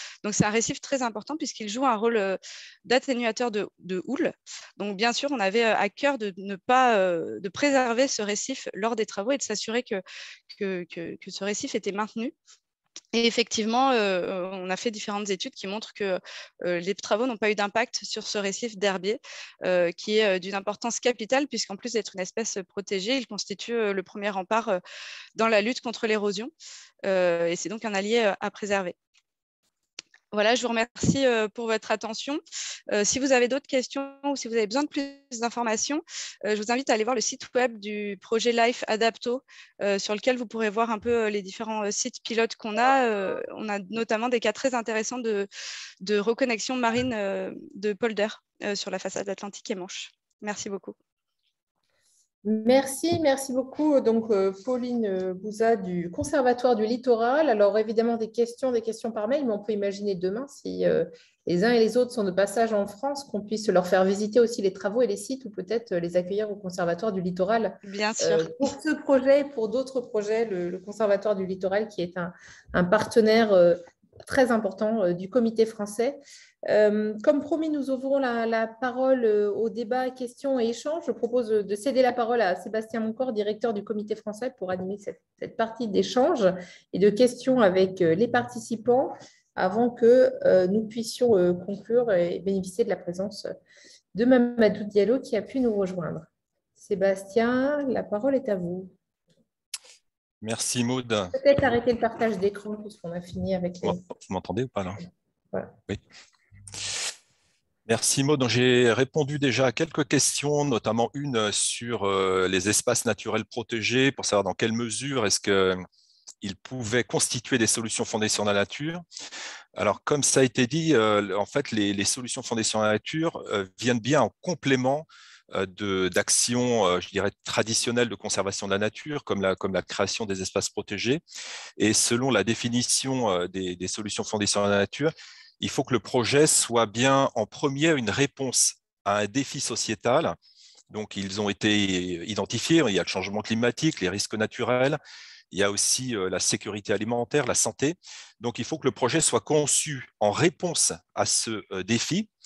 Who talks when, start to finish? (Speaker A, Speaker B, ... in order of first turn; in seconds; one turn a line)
Speaker A: 0.2-10.0
Speaker A: 10.5-12.3
Speaker A: 13.1-24.8
Speaker A: 25.4-26.5
Speaker A: 27.1-28.9
Speaker A: 30.3-45.5
Speaker A: 46.0-51.0
Speaker B: 52.4-93.5
Speaker A: 67.8-68.6
Speaker B: 94.1-98.9
Speaker C: 100.4-101.4
Speaker B: 101.3-104.0
Speaker C: 103.8-105.0
Speaker C: 107.8-115.8
Speaker C: 116.4-119.0
Speaker C: 119.8-131.2
Speaker C: 131.8-140.3
Speaker C: 140.9-145.0
Speaker C: 145.5-152.3